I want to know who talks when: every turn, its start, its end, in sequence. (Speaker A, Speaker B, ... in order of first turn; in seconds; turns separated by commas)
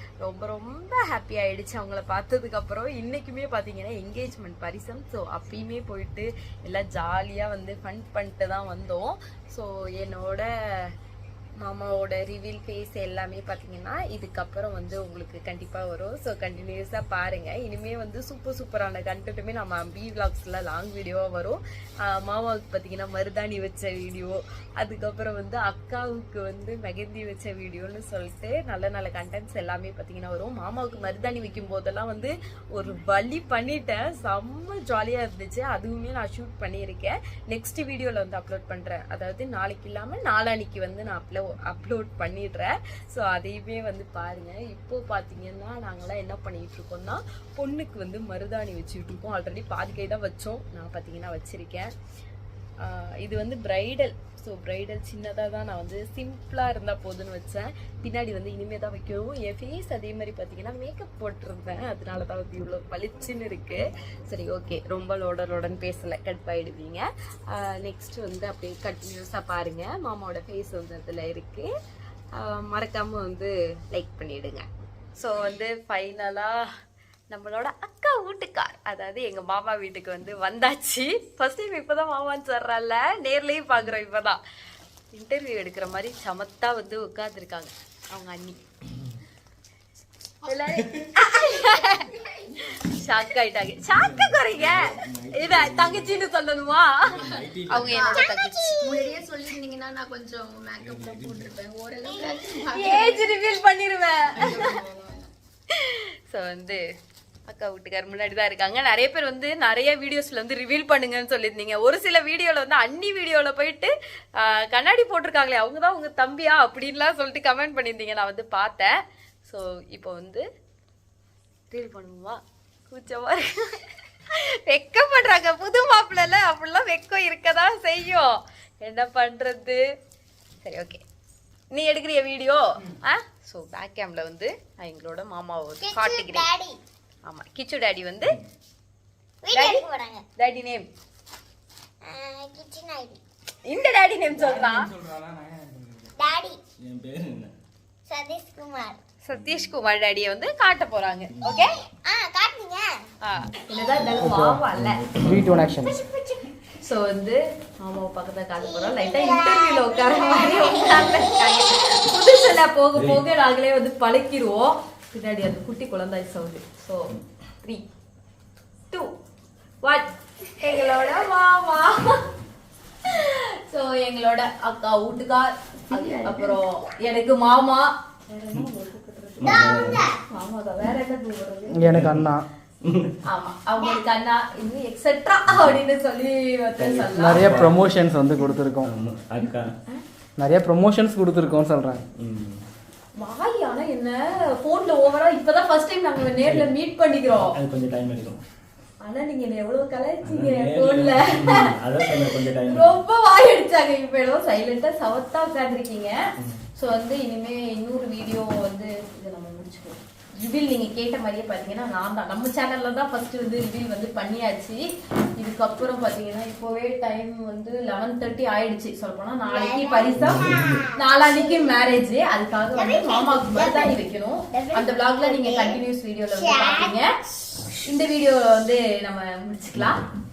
Speaker A: 0.2-10.9, Speaker A: 11.6-51.9, Speaker A: 52.8-71.7, Speaker A: 72.3-76.6, Speaker A: 77.3-84.4, Speaker A: 85.1-88.6, Speaker A: 90.4-99.1, Speaker B: 93.9-96.2, Speaker B: 97.0-98.2, Speaker C: 97.9-103.3, Speaker D: 98.2-98.9, Speaker B: 100.8-101.6, Speaker D: 102.0-102.4, Speaker A: 102.5-104.8, Speaker C: 104.3-105.3, Speaker A: 105.7-106.8, Speaker A: 107.5-120.4, Speaker A: 121.7-129.8, Speaker A: 130.6-131.0, Speaker A: 131.7-136.5, Speaker D: 135.8-136.8, Speaker A: 137.2-138.4, Speaker D: 139.4-140.2, Speaker A: 139.5-139.8, Speaker A: 140.4-140.9, Speaker D: 142.0-143.2, Speaker A: 143.6-144.9, Speaker B: 144.4-146.1, Speaker D: 146.2-146.6, Speaker B: 146.8-147.5, Speaker D: 148.1-149.0, Speaker A: 149.2-151.8, Speaker B: 149.3-149.6, Speaker D: 151.9-153.0, Speaker A: 153.2-155.1, Speaker B: 154.0-155.6, Speaker E: 154.2-154.7, Speaker E: 155.2-156.0, Speaker D: 155.7-156.5, Speaker A: 156.8-167.8, Speaker D: 158.6-161.6, Speaker B: 162.9-163.2, Speaker A: 169.8-172.3, Speaker A: 173.0-181.9, Speaker C: 176.0-176.4, Speaker B: 179.4-180.1, Speaker D: 179.4-180.2, Speaker E: 181.7-182.4, Speaker B: 181.8-183.2, Speaker A: 183.2-187.6, Speaker B: 185.5-185.8, Speaker B: 186.8-188.2, Speaker E: 187.2-188.9, Speaker B: 188.8-189.7, Speaker E: 190.4-192.0, Speaker B: 192.1-192.6, Speaker A: 193.2-197.6, Speaker B: 196.4-196.7, Speaker B: 197.4-198.4, Speaker A: 199.0-206.2, Speaker B: 200.2-203.0, Speaker B: 206.4-206.6, Speaker A: 206.8-214.8, Speaker A: 215.4-227.1, Speaker D: 219.4-221.7, Speaker B: 220.3-220.7, Speaker D: 222.7-224.0, Speaker D: 224.5-225.8, Speaker D: 226.3-227.0, Speaker A: 227.7-230.0